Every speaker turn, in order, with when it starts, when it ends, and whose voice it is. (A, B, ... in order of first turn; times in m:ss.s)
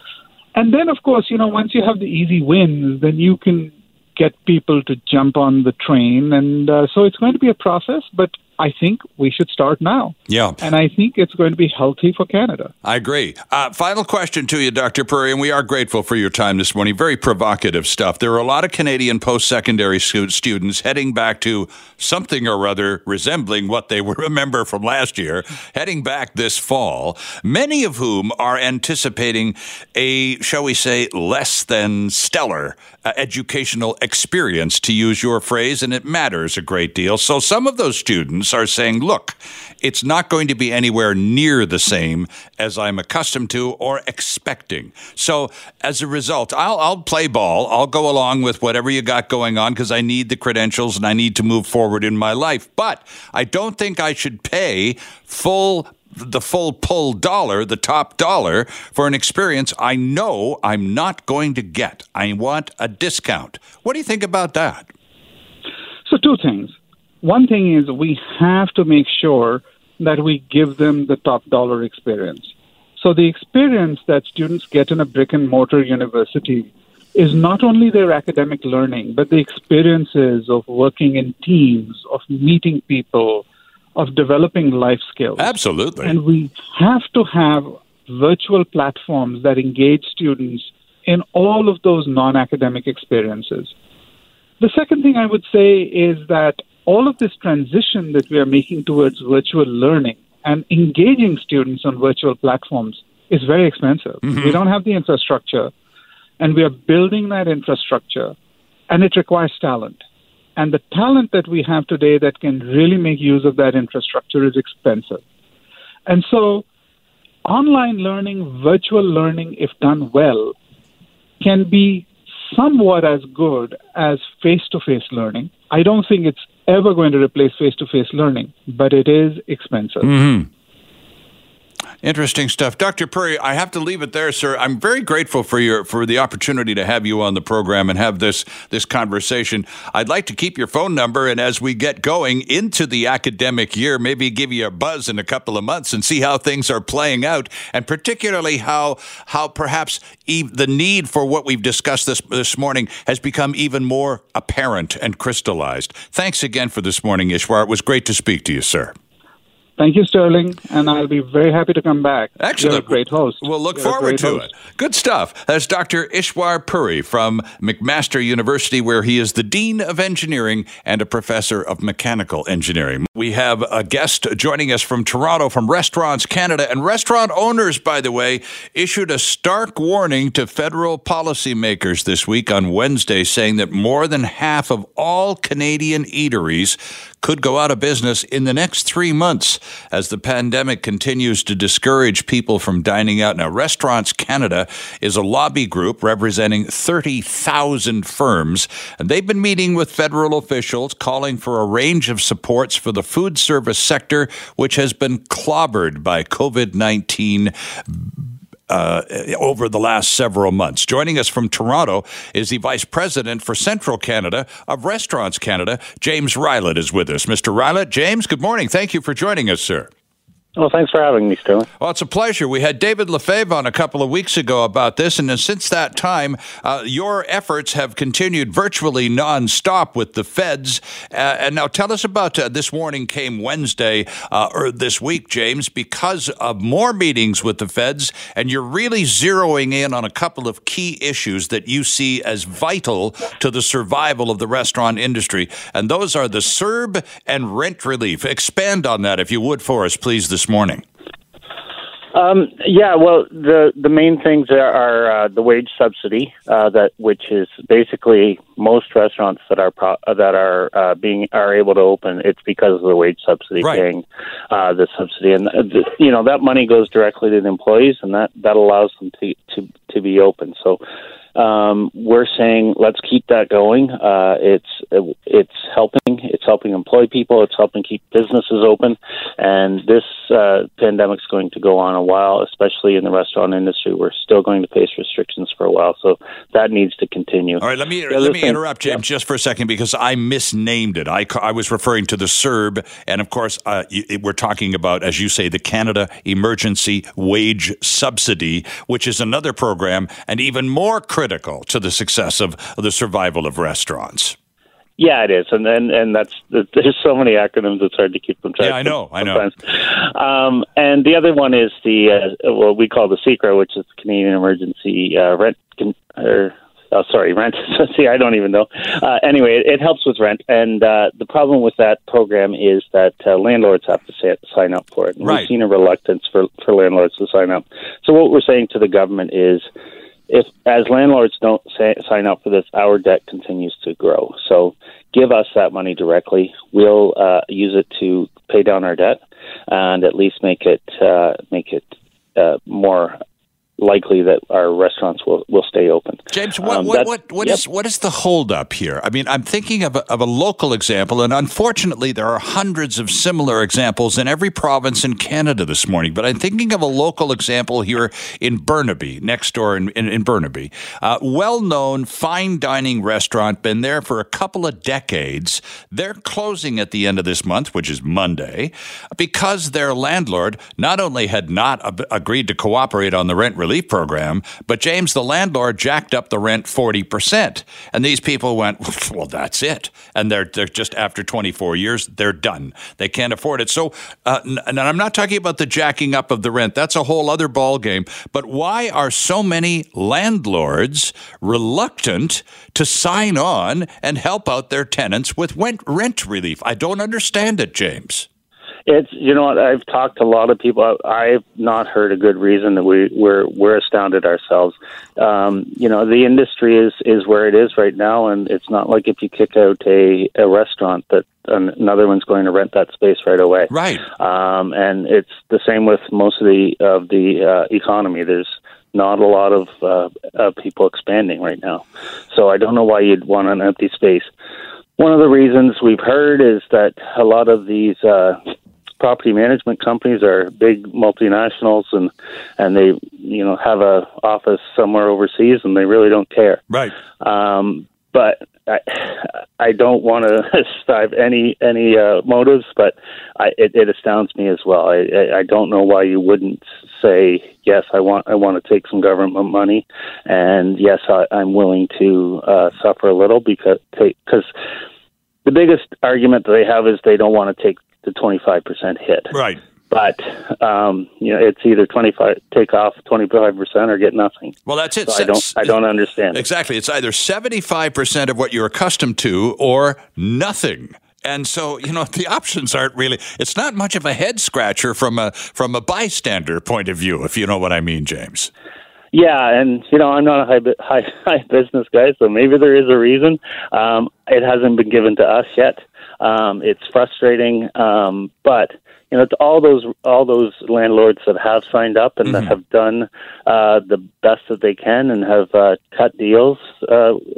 0:00.5-0:12.7 A
0:10.3-0:10.6 B
0:12.8-1:04.9 B
1:06.0-1:23.4 A
1:24.0-1:33.7 A
1:25.4-1:26.2 B
1:34.6-1:45.7 A
1:44.2-1:44.6 B
1:46.4-1:48.3 A
1:48.9-1:50.0 A
1:50.6-1:55.2 A
1:56.0-1:56.6 A
1:57.4-2:00.5 A
2:01.4-2:10.1 A
2:10.0-2:10.5 B
2:12.0-2:38.9 B
2:39.8-2:44.5 A
2:42.4-3:28.1 B
3:28.7-3:39.9 B
3:40.6-3:41.7 C
3:41.8-4:10.8 B
4:12.1-4:30.8 C
4:31.3-4:48.9 C
4:47.6-5:04.4 B
5:05.0-5:29.6 C
5:08.6-5:09.4 B
5:25.2-5:25.5 B
5:30.3-5:43.2 C
5:43.8-5:47.6 C
5:46.3-6:38.3 B
6:38.9-7:04.3 C
6:53.7-6:54.0 B
7:05.0-7:08.4 C
7:09.0-7:16.6 C
7:17.2-7:34.5 C
7:35.4-7:39.3 C
7:39.3-7:39.6 B
7:39.9-7:46.4 C
7:44.7-7:45.7 B
7:46.3-7:58.5 B
7:59.1-8:17.2 C
8:12.2-8:12.5 B